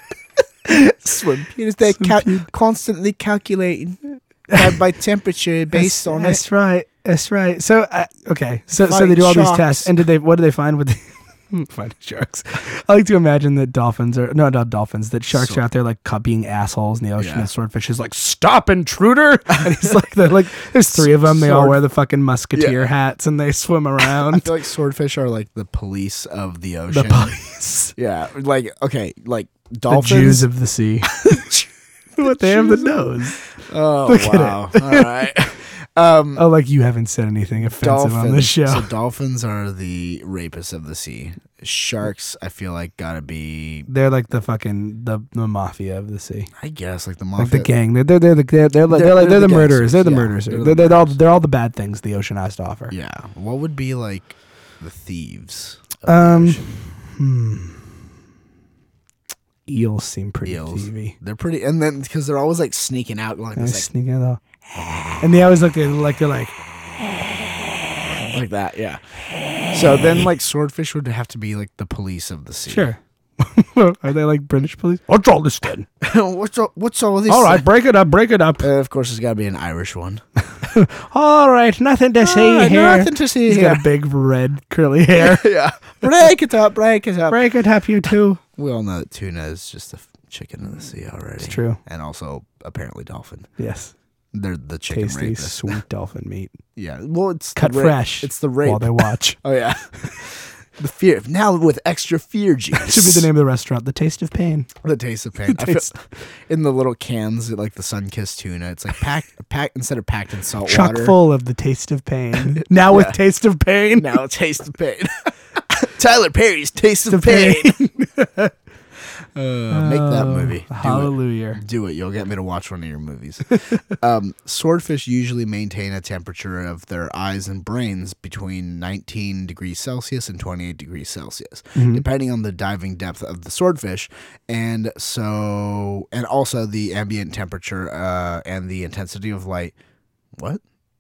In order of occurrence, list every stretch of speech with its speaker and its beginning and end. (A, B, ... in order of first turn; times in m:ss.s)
0:00.7-0:04.0 A
0:01.9-0:02.5 B
0:04.5-0:06.4 A
0:05.7-0:24.5 B
0:08.8-0:09.9 A
0:15.3-0:15.6 A
0:17.2-0:17.5 A
0:19.6-0:20.0 A
0:20.9-0:21.8 A
0:22.5-0:22.9 A
0:24.0-0:27.4 A
0:26.9-0:28.0 B
0:28.0-0:30.5 A
0:29.9-0:31.4 B
0:31.1-0:36.4 A
0:32.2-0:33.4 B
0:34.1-0:35.1 B
0:36.4-0:38.9 B
0:37.7-0:43.9 A
0:43.9-0:46.5 B
0:46.6-0:47.7 A
0:47.4-0:52.9 B
0:48.9-0:51.2 A
0:52.9-0:56.7 A
0:56.1-0:57.9 B
0:59.7-1:01.2 B
1:00.4-1:03.9 A
1:03.6-1:04.4 B
1:05.2-1:06.6 B
1:08.2-1:12.9 A
1:12.7-1:15.9 B
1:16.0-1:17.6 A
1:17.3-1:18.7 B
1:18.6-1:20.2 A
1:20.6-1:25.5 B
1:22.2-1:23.9 A
1:25.2-1:27.4 A
1:27.3-1:28.4 B
1:28.6-1:33.5 A
1:31.4-1:31.8 B
1:33.6-1:33.9 B
1:34.3-1:35.6 A
1:34.9-1:36.6 B
1:36.8-1:43.3 A
1:37.6-1:39.4 B
1:42.8-1:44.7 B
1:44.8-1:51.2 A
1:45.5-1:45.9 B
1:50.7-1:54.2 B
1:52.4-1:53.2 A
1:54.0-1:57.8 A
1:57.1-1:58.5 B
1:59.4-2:19.8 A
1:59.7-2:01.6 B
2:11.8-2:12.0 B
2:20.4-2:20.6 A